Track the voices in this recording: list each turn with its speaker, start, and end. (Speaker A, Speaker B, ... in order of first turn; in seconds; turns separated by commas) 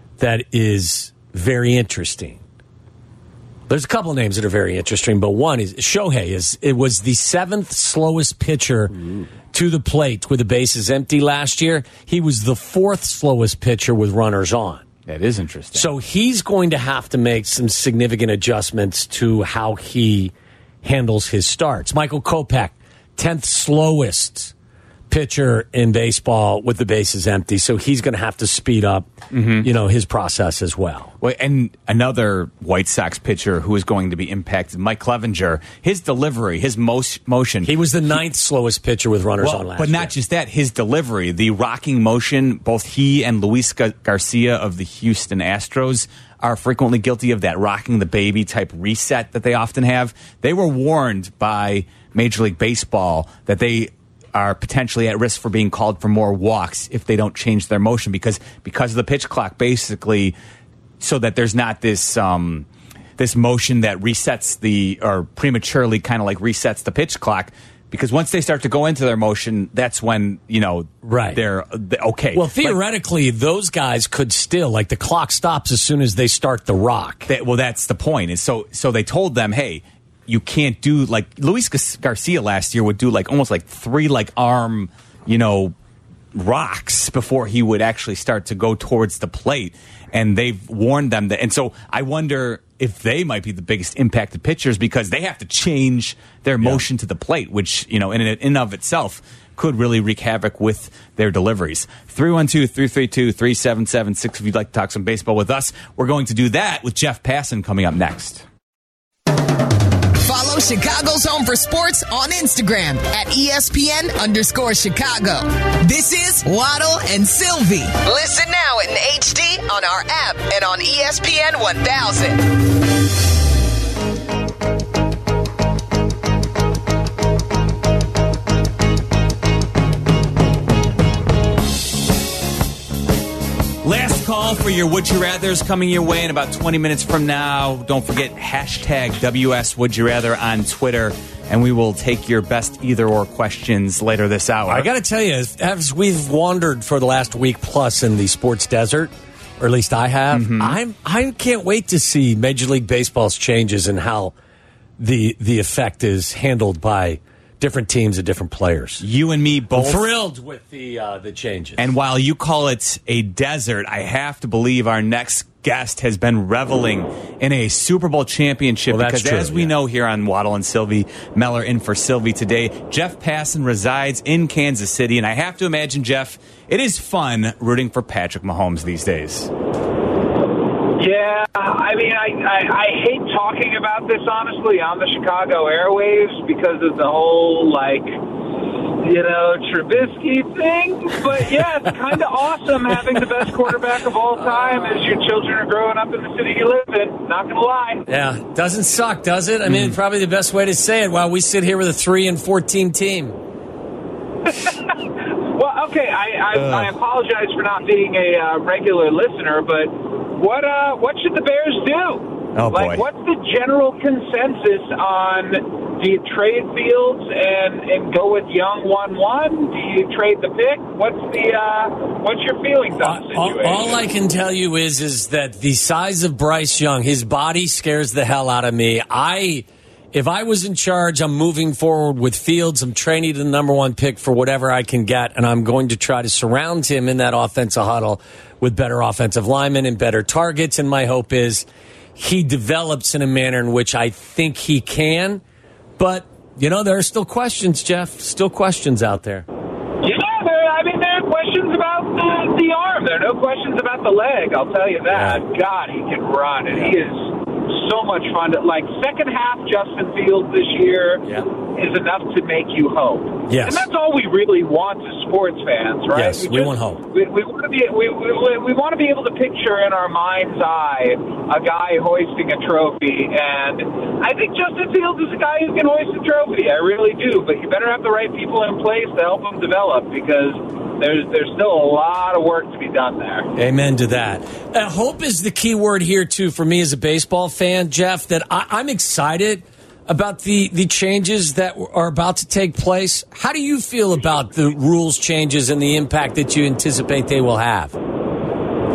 Speaker A: 0.2-2.4, Speaker A: 3.7-14.8, Speaker B: 15.1-15.9, Speaker A: 15.7-20.3, Speaker A: 20.8-24.5, Speaker A: 25.1-31.1, Speaker B: 29.3-29.7, Speaker B: 31.2-37.7, Speaker A: 37.6-40.1, Speaker B: 39.4-60.3, Speaker B: 61.0-62.6, Speaker B: 63.2-72.8, Speaker A: 71.0-71.4, Speaker A: 72.3-77.3, Speaker B: 77.3-85.7, Speaker B: 86.3-108.4, Speaker C: 110.2-122.5, Speaker B: 133.8-144.9, Speaker A: 144.7-154.3, Speaker B: 150.3-150.8, Speaker A: 155.0-159.0, Speaker B: 159.0-160.1, Speaker A: 159.7-161.9, Speaker B: 161.8-179.5, Speaker A: 168.9-169.7, Speaker D: 180.9-188.2, Speaker D: 189.0-198.0, Speaker A: 194.4-194.9, Speaker A: 198.1-203.4, Speaker B: 199.7-199.9, Speaker D: 204.4-224.0, Speaker B: 206.5-206.9, Speaker B: 212.5-213.1, Speaker A: 223.0-241.7, Speaker A: 242.2-245.4, Speaker A: 246.0-249.4, Speaker D: 250.0-283.5, Speaker A: 255.1-255.4, Speaker A: 263.5-263.9, Speaker A: 266.1-267.0, Speaker A: 283.5-297.9